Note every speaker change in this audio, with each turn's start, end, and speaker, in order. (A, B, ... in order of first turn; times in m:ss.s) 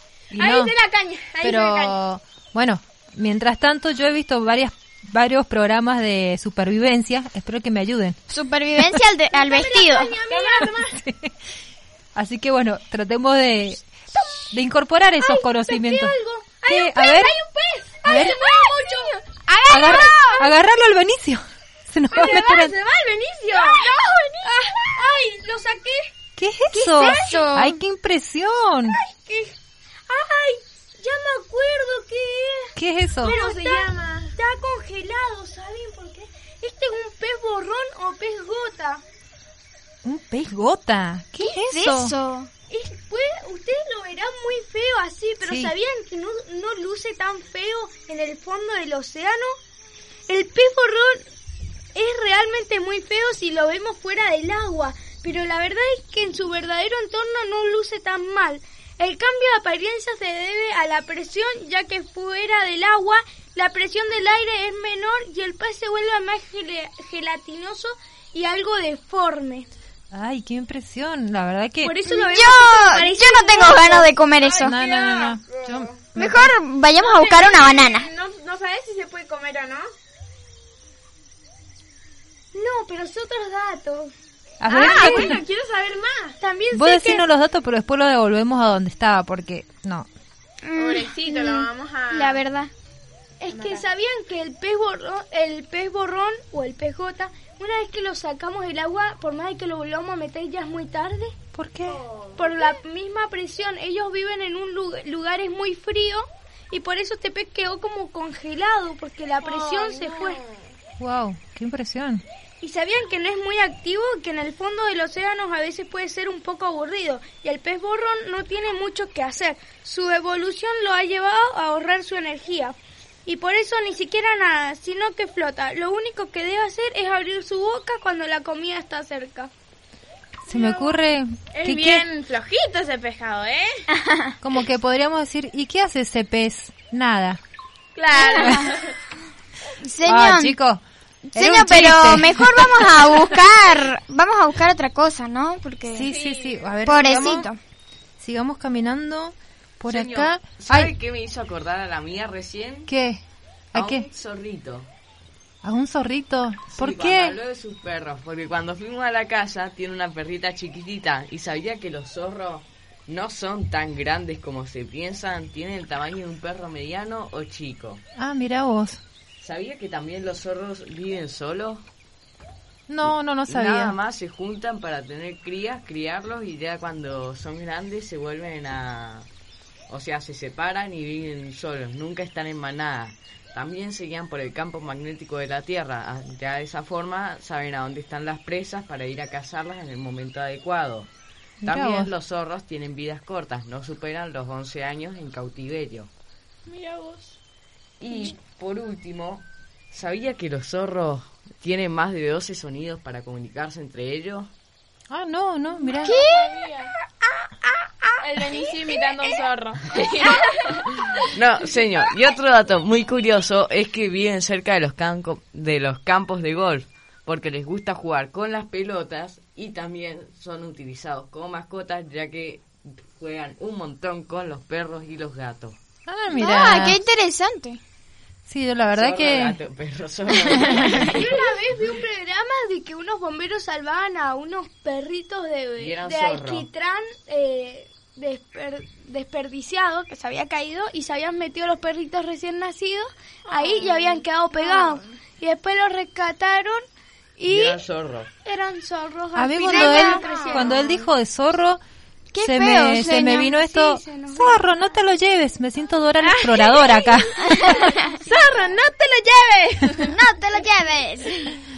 0:00.3-0:00.7 A
0:00.4-0:02.0 B
0:01.4-0:08.2 A
0:08.3-0:10.2 C
0:09.3-0:11.0 D
0:10.3-0:10.9 B
0:10.6-0:11.3 A
0:12.2-0:13.8 A
0:14.5-0:17.4 A
0:15.2-0:20.5 D
0:18.0-0:18.4 A
0:19.7-0:22.7 A
0:22.1-0:26.1 D
0:23.5-0:24.9 B
0:26.4-0:29.0 A
0:26.7-0:27.8 C
0:26.9-0:27.5 D
0:28.9-0:29.6 D
0:30.1-0:39.0 D
0:32.8-0:33.4 A
0:33.3-0:34.4 B
0:40.0-0:42.1 A
0:41.4-0:42.5 C
0:42.7-0:49.6 D
0:45.4-0:45.7 A
0:50.3-0:51.2 D
0:51.9-1:09.7 D
1:10.1-1:12.0 A
1:11.8-1:14.1 D
1:12.1-1:14.8 C
1:14.5-1:15.9 B
1:14.6-1:16.6 A
1:16.2-1:18.1 C
1:17.0-1:19.9 B
1:22.5-1:24.1 D
1:24.6-1:25.4 A
1:24.7-1:26.4 B
1:24.7-1:25.4 D
1:26.4-1:27.2 D
1:26.7-1:30.1 A
1:30.6-1:32.7 C
1:30.8-1:32.4 B
1:33.4-1:41.4 D
1:33.6-1:33.8 B
1:41.5-1:42.0 A
1:41.9-1:42.8 B
1:42.4-1:50.4 D
1:49.4-1:50.6 B
1:51.0-1:52.2 A
1:52.6-2:09.5 D
2:10.5-2:12.0 A
2:10.5-2:10.9 B
2:11.5-2:13.8 B
2:13.9-2:14.3 C
2:14.4-2:17.4 A
2:18.0-2:18.9 B
2:18.2-2:18.7 A
2:18.3-2:18.6 C
2:19.8-2:20.6 C
2:20.0-2:20.8 A
2:21.2-2:26.1 C
2:21.4-2:23.0 A
2:25.9-2:27.5 A
2:26.1-2:26.7 B
2:26.9-2:27.6 C
2:28.2-2:30.9 A
2:29.9-2:32.9 E
2:32.9-2:33.2 A
2:33.7-2:34.1 A
2:33.7-2:34.9 E
2:35.6-2:37.4 A
2:36.7-2:48.0 E
2:48.2-2:49.0 A
2:49.4-2:51.8 E
2:52.9-2:54.0 A
2:53.5-2:59.3 E
2:59.9-3:11.1 E
3:11.6-3:12.1 A
3:11.6-3:16.1 E
3:16.7-3:17.4 B
3:18.0-3:24.5 E
3:25.1-3:26.2 A
3:25.9-3:26.9 B
3:26.0-3:26.5 C
3:28.2-3:30.9 B
3:31.3-3:45.8 E
3:46.1-3:47.0 A
3:46.3-3:47.8 C
3:48.5-3:49.6 A
3:48.9-3:51.3 E
3:50.5-3:51.1 A
3:51.1-4:06.9 D
3:55.8-3:56.7 E
4:03.5-4:05.0 B
4:07.4-4:07.8 D
4:07.4-4:08.3 E
4:08.4-4:11.0 D
4:09.4-4:11.8 A
4:09.6-4:10.8 B
4:12.3-4:13.6 C
4:12.4-4:17.8 A
4:13.5-4:14.8 D
4:16.2-4:20.1 B
4:20.0-4:21.6 C